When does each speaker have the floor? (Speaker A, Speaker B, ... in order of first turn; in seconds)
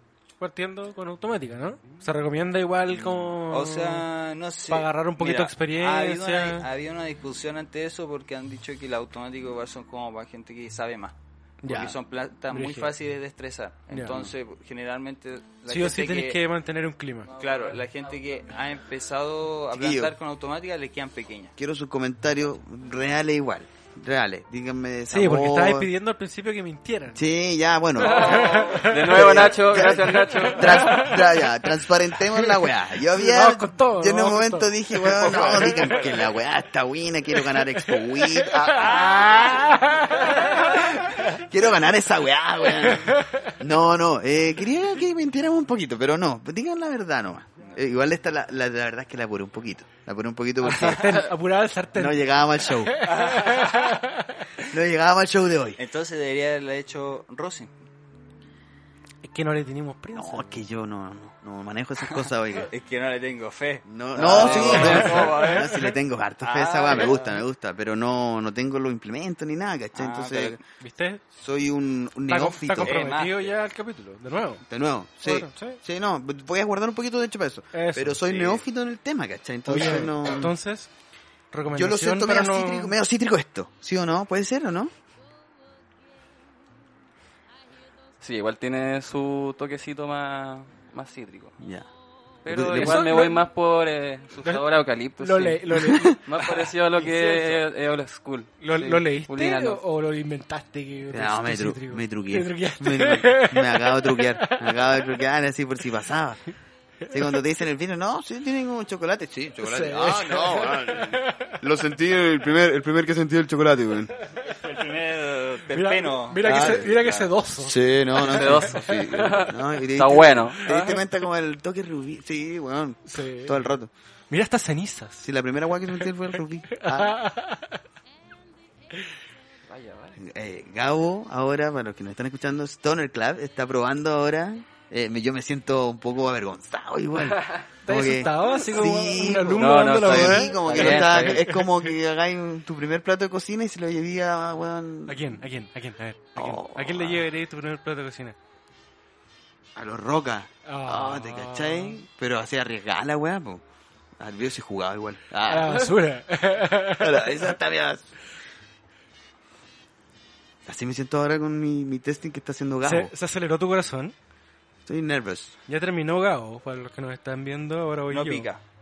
Speaker A: 0.4-4.1, 4.7-6.7, 11.6-12.0, 12.5-12.9, 13.9-14.2, 15.7-17.3, 25.1-27.3, 28.2-31.6, 32.1-36.1, 37.6-40.9, 42.9-43.5, 50.6-54.4, 59.2-60.6, 64.2-65.6, 70.8-71.2, 72.3-74.7, 75.2-75.8, 77.7-78.2, 79.7-80.9, 81.5-83.0, 92.8-93.4, 95.2-96.2, 98.6-105.1, 107.0-107.4, 109.6-111.6, 115.7-118.6, 120.7-121.0, 123.1-123.7, 124.3-125.3, 126.7-127.8, 137.8-141.6, 145.1-148.4, 150.7-152.0, 155.5-157.5, 162.8-164.2, 165.7-168.5
Speaker B: 3.5-16.4, 17.4-21.5, 28.1-28.8, 35.2-35.9, 39.0-39.5, 53.1-54.0, 55.8-57.7, 62.6-67.3, 70.0-70.6, 72.8-73.5, 78.2-78.6, 96.4-96.7, 114.5-117.3, 168.1-168.6
Speaker C: 17.3-18.2, 28.0-31.1, 88.2-91.6, 92.5-99.8, 118.2-120.7, 129.7-130.2, 137.3-137.6, 139.6-141.6
Speaker D: 19.7-20.1, 21.6-25.9, 27.1-51.3, 52.0-53.0, 54.6-55.8, 60.1-62.7, 63.9-70.6, 71.3-73.0, 74.7-80.5, 81.7-84.9, 91.6-91.9, 92.5-93.4, 95.7-96.2, 101.1-106.4, 107.1-114.1, 116.4-116.9, 117.6-123.9, 125.2-127.2, 130.2-145.4, 146.4-147.3, 149.8-153.6, 154.2-155.9, 156.9-158.1, 160.7-163.1, 164.9-165.6